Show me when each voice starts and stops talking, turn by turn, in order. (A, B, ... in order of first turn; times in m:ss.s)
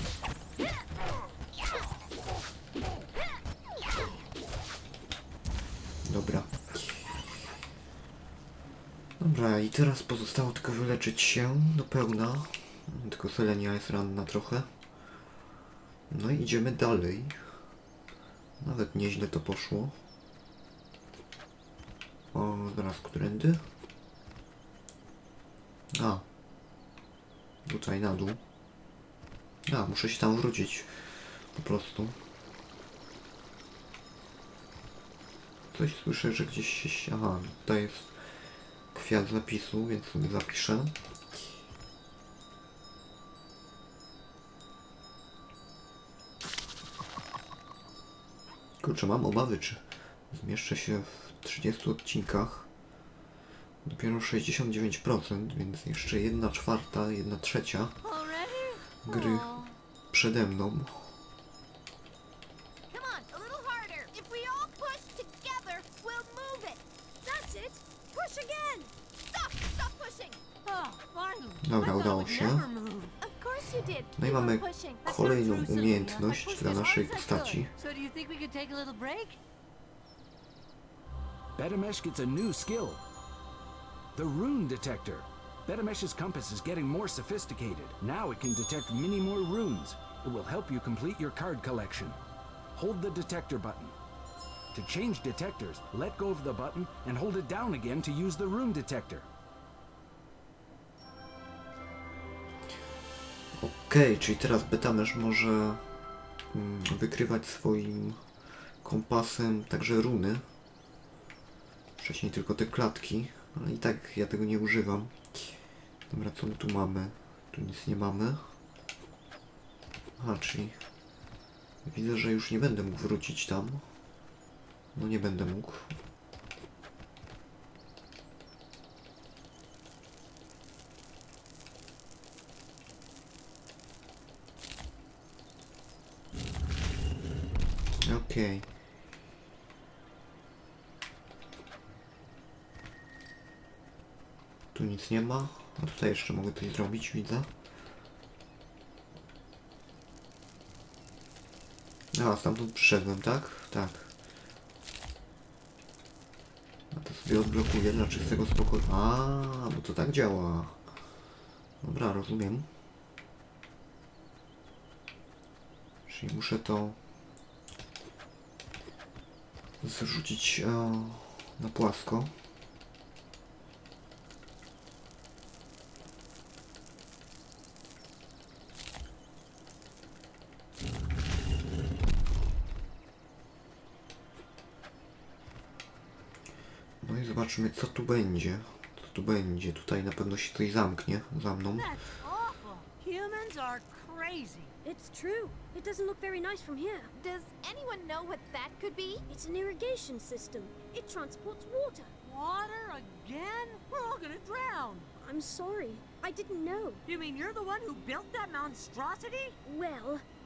0:06.0-0:07.1 A
0:09.2-0:14.7 A
0:16.1-0:17.4 A
0:18.6-0:20.0 A
0:22.3-0:23.6 A
0:25.9-0:26.2 A
0:27.7-0:28.4 A
0:29.7-0:32.2 A
0:35.7-0:38.1 A
0:38.9-0:41.0 A
0:48.8-0:52.7 A
0:53.8-0:58.0 A
0:58.0-0:59.8 B
0:59.0-1:01.2 A
1:02.9-1:06.8 C
1:07.2-1:08.9 D
1:09.3-1:10.4 C
1:10.6-1:13.2 B
1:11.6-1:12.7 A
1:13.2-1:15.0 C
1:14.2-1:17.7 A
1:15.0-1:19.4 B
1:21.6-1:23.0 E
1:24.2-1:32.2 E
1:32.7-1:34.0 E
1:34.7-1:39.3 E
1:43.6-1:45.8 A
1:46.5-1:48.2 A
1:48.8-1:50.4 A
1:52.0-1:55.4 A
1:56.1-1:58.4 A
2:00.2-2:00.8 A
2:01.8-2:03.8 A
2:05.0-2:05.9 A
2:18.0-2:18.7 A
2:24.7-2:27.5 A
2:32.1-2:34.1 A
2:36.9-2:40.8 A
2:41.8-2:42.7 A
2:46.1-2:47.0 A
2:49.8-2:52.3 A
3:07.0-3:12.0 A
3:11.7-3:14.7 B
3:14.8-3:17.1 D
3:17.2-3:19.2 C
3:19.3-3:22.1 D
3:22.2-3:25.1 B
3:25.2-3:27.0 D
3:27.0-3:29.6 B
3:29.6-3:30.2 D